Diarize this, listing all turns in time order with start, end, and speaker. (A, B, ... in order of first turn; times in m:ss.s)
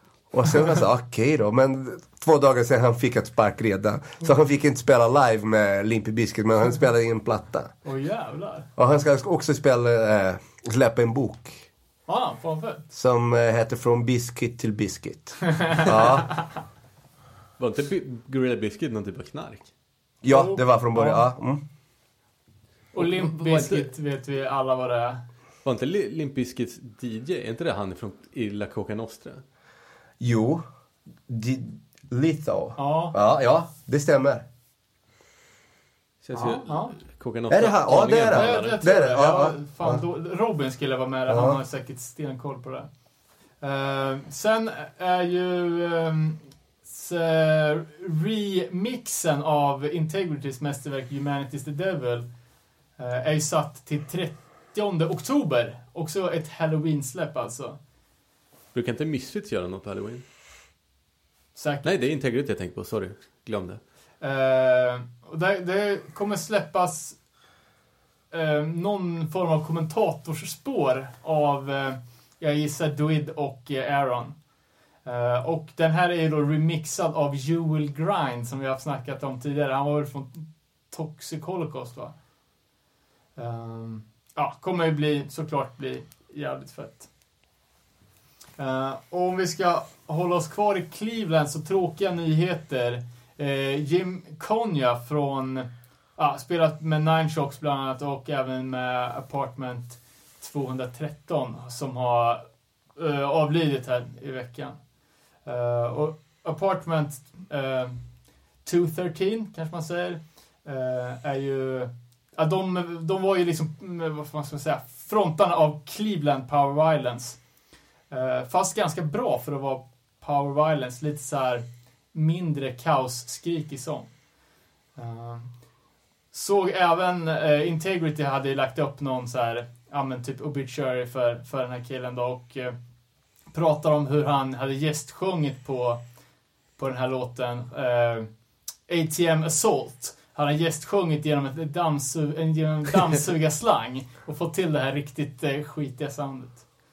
0:00.3-0:07.7 A
0:07.8-0:08.7 B
0:08.8-0:11.6 A
0:12.1-0:12.8 B
0:12.9-0:16.5 A
0:17.6-0:19.7 C
0:20.2-0:21.6 A
0:20.3-0:21.2 B
0:22.9-0:23.9 C
0:23.0-0:25.2 B
0:25.6-0:29.4 C
0:30.2-0:30.6 A
0:31.3-0:34.4 A
0:32.8-0:33.2 B
0:36.2-0:38.8 C
0:36.3-0:37.0 B
0:37.5-0:40.0 A
0:38.3-0:42.9 B
0:41.3-0:41.6 A
0:43.6-0:52.3 B
0:53.0-0:57.8 B
0:58.7-1:00.2 C
1:01.6-1:01.9 B
1:01.8-1:03.8 C
1:04.2-1:07.2 B
1:08.3-1:14.4 B
1:15.0-1:22.2 B
1:23.4-1:27.1 B
1:28.6-1:44.9 B
1:45.4-1:57.4 B
1:58.1-2:04.2 B
2:05.0-2:05.6 B
2:06.3-2:12.8 B
2:13.5-2:16.0 B
2:16.8-2:18.3 B
2:18.9-2:26.7 B